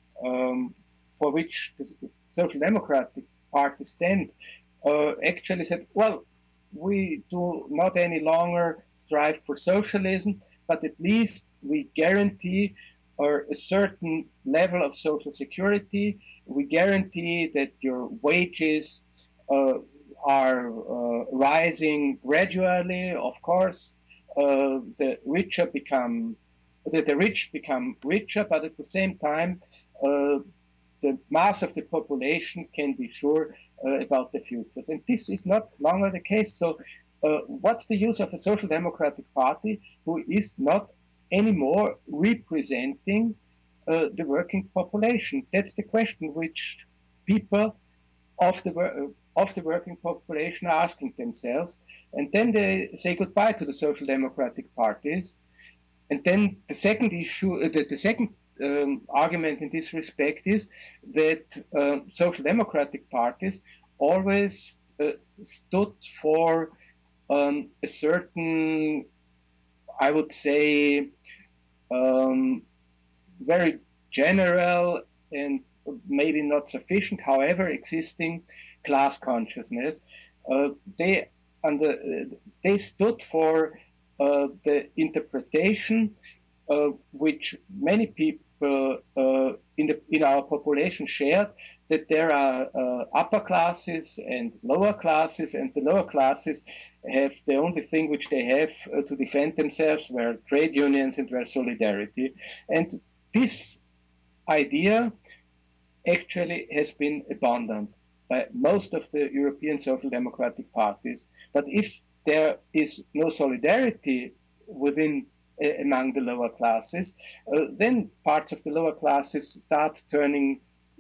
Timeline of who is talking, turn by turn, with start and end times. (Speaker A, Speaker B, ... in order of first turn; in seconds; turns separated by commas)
Speaker A: 0.2-30.4, Speaker A: 31.0-47.8, Speaker A: 48.4-55.4, Speaker A: 56.1-66.7, Speaker A: 67.3-69.0, Speaker A: 70.0-71.1, Speaker A: 71.9-72.6, Speaker A: 73.4-86.1, Speaker A: 86.7-103.8, Speaker A: 104.5-105.1, Speaker A: 106.0-120.6